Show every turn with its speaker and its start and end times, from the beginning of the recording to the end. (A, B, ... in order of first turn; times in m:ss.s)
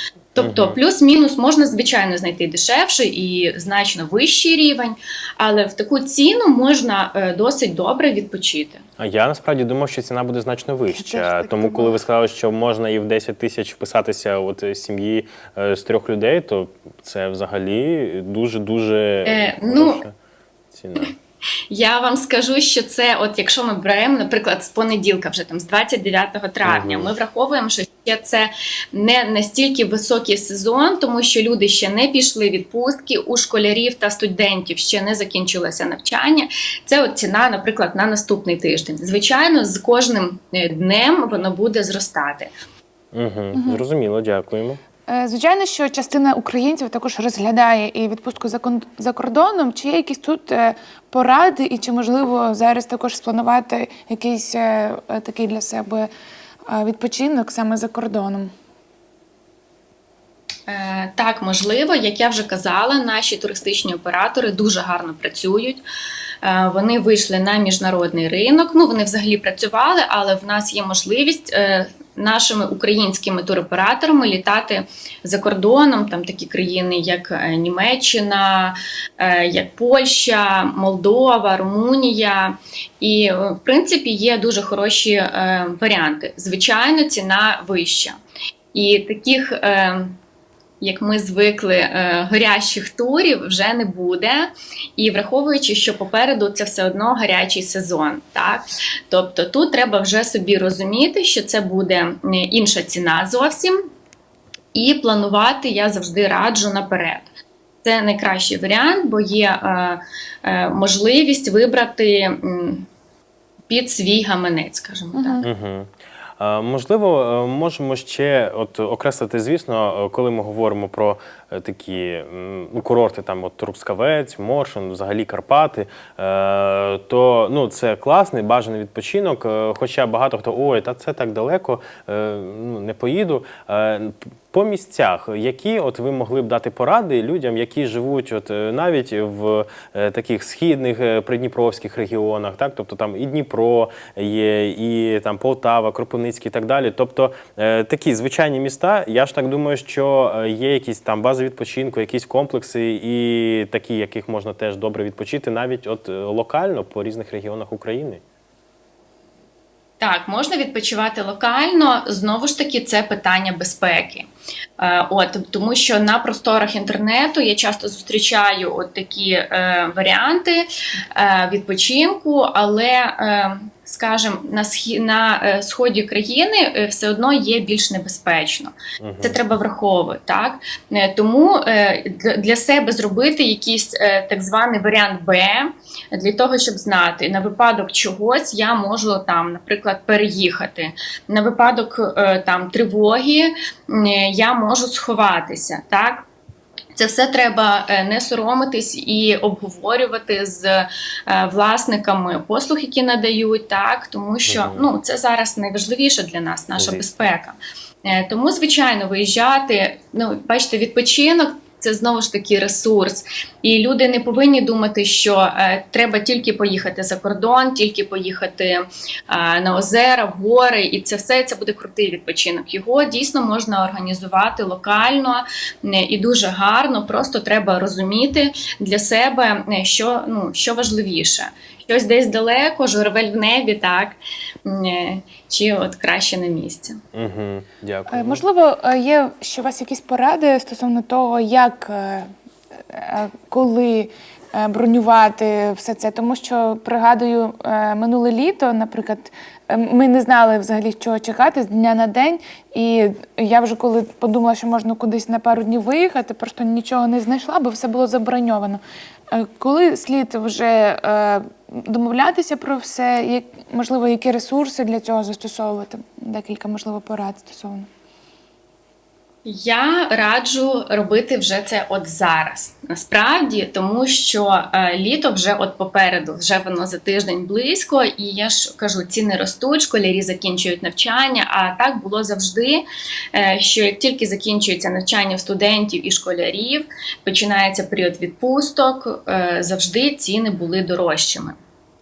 0:00.3-0:08.8 A
0:00.4-0:00.8 B
0:09.0-0:20.1 B
0:10.9-0:12.0 C
0:19.2-0:20.0 A
0:20.7-0:21.1 B
0:21.7-0:42.5 A
0:26.6-0:27.1 B
0:43.1-0:44.8 B
0:43.5-0:43.8 C
0:45.1-0:56.1 C
0:56.7-0:58.5 C
1:00.7-1:05.8 A
1:06.4-1:28.2 A
1:28.7-1:30.1 A
1:30.8-1:43.7 A
1:44.7-1:47.3 A
1:47.8-1:52.8 A
1:53.7-1:55.4 A
1:55.1-1:55.4 C
1:55.4-2:38.2 B
2:40.0-2:44.3 A
2:44.8-3:16.2 A
2:59.0-2:59.4 B
3:17.0-3:57.0 A
3:24.4-3:24.9 B
3:26.8-3:27.1 B
3:57.1-3:58.4 B
3:58.1-4:02.3 C
4:02.9-4:18.8 C
4:19.3-4:27.9 C
4:29.4-4:51.6 A